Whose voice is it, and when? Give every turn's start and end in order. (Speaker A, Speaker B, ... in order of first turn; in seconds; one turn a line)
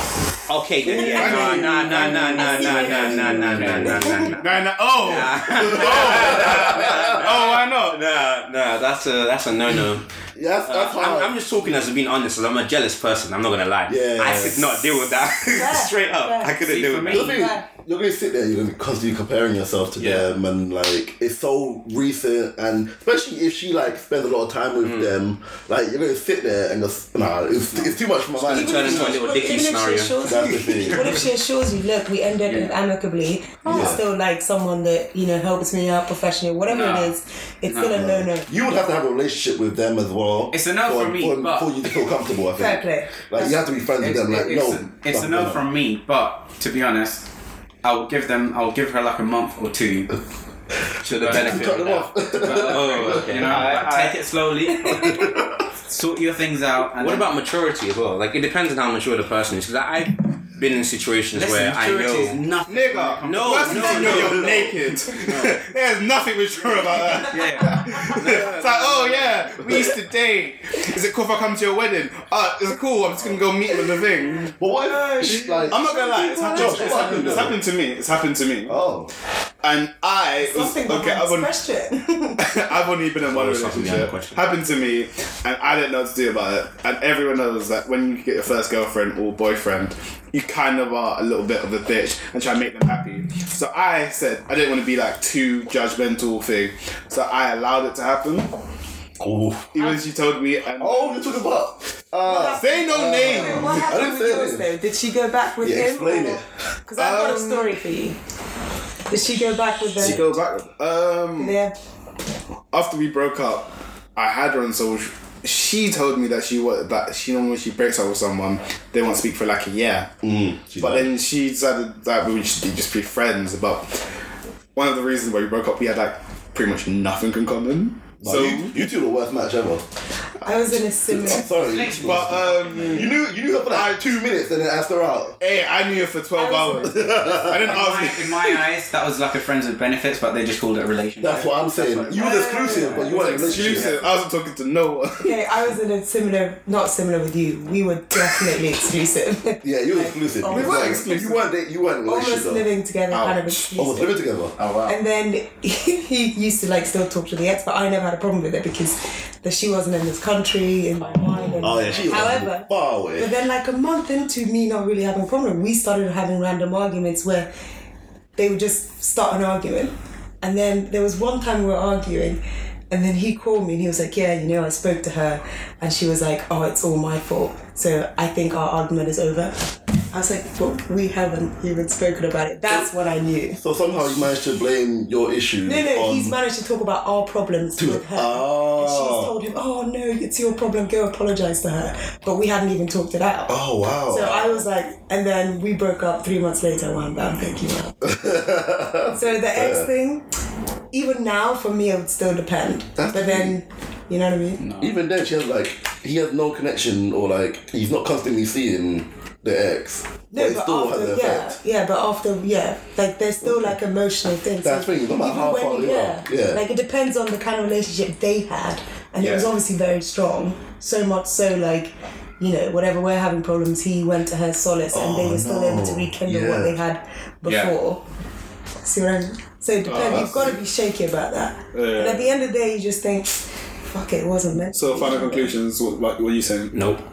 Speaker A: 0.5-4.5
Speaker B: 0.9-2.4
Speaker C: 1.0-3.5
Speaker D: 1.2-4.3
Speaker E: 3.4-4.2
Speaker B: 4.3-8.0
Speaker A: 5.0-10.1
Speaker D: 5.9-7.2
Speaker D: 10.4-11.4
Speaker A: 10.7-17.4
Speaker D: 13.9-14.8
Speaker C: 15.5-16.6
Speaker E: 16.6-17.4
Speaker D: 17.1-29.2
Speaker C: 17.2-17.6
Speaker E: 20.0-20.3
Speaker A: 24.8-25.1
Speaker A: 28.4-30.3
Speaker C: 28.5-38.5
Speaker D: 30.2-31.2
Speaker E: 32.5-32.7
Speaker D: 33.6-34.0
Speaker E: 36.7-37.1
Speaker E: 37.7-38.0
Speaker D: 37.9-45.6
Speaker E: 40.5-41.8
Speaker C: 42.5-43.6
Speaker E: 44.0-47.2
Speaker E: 47.8-50.2
Speaker E: 51.0-55.3
Speaker A: 51.1-54.1
Speaker D: 51.1-53.6
Speaker B: 53.5-54.1
Speaker D: 55.0-55.5
Speaker E: 55.9-57.3
Speaker A: 57.0-62.4
Speaker E: 61.3-64.5
Speaker B: 62.7-74.5
Speaker A: 63.2-64.6
Speaker D: 64.1-64.7
Speaker E: 65.3-65.5
Speaker E: 67.3-68.6
Speaker A: 68.1-69.3
Speaker D: 74.6-77.6
Speaker C: 74.7-77.5
Speaker B: 75.7-78.8
Speaker D: 78.7-79.1
Speaker B: 79.6-81.5
Speaker C: 80.4-82.5
Speaker B: 82.4-98.5
Speaker A: 83.3-84.4
Speaker D: 99.2-99.8
Speaker B: 99.7-101.5
Speaker D: 100.8-104.7
Speaker C: 102.2-108.2
Speaker B: 102.6-103.9
Speaker D: 105.6-106.5
Speaker B: 107.0-107.7
Speaker C: 109.1-110.3
Speaker B: 110.0-111.6
Speaker C: 111.4-111.8
Speaker B: 112.7-120.1
Speaker D: 120.2-121.1
Speaker B: 120.8-124.1
Speaker B: 124.8-128.8
Speaker D: 128.2-129.9
Speaker C: 130.4-131.5
Speaker D: 131.1-135.4
Speaker E: 131.5-133.1
Speaker B: 132.0-133.1
Speaker B: 133.7-134.0
Speaker B: 135.4-138.6
Speaker C: 136.3-137.4
Speaker D: 136.9-137.7
Speaker E: 137.6-143.4
Speaker D: 141.2-143.9
Speaker C: 142.1-143.9
Speaker B: 143.1-145.4
Speaker C: 145.2-151.2
Speaker D: 149.6-152.7
Speaker B: 150.5-151.5
Speaker C: 152.1-154.2
Speaker B: 153.1-153.7
Speaker D: 153.8-154.5
Speaker E: 154.6-155.0
Speaker C: 154.9-167.5
Speaker E: 161.5-161.9
Speaker D: 161.6-163.3
Speaker C: 168.4-179.6
Speaker C: 180.1-183.6
Speaker D: 183.6-186.3
Speaker C: 185.7-198.0
Speaker D: 187.8-189.3
Speaker D: 193.5-194.6
Speaker D: 198.0-199.9
Speaker C: 199.1-200.2
Speaker C: 200.9-204.6
Speaker D: 203.0-203.6
Speaker E: 204.6-205.0
Speaker D: 204.8-211.6
Speaker C: 210.3-228.0
Speaker D: 214.6-216.6
Speaker E: 219.2-219.5
Speaker D: 224.9-226.8
Speaker E: 227.4-227.7
Speaker C: 228.8-235.5
Speaker B: 229.9-230.5
Speaker D: 229.9-230.5
Speaker B: 231.7-232.3
Speaker B: 234.7-236.9
Speaker A: 236.7-237.0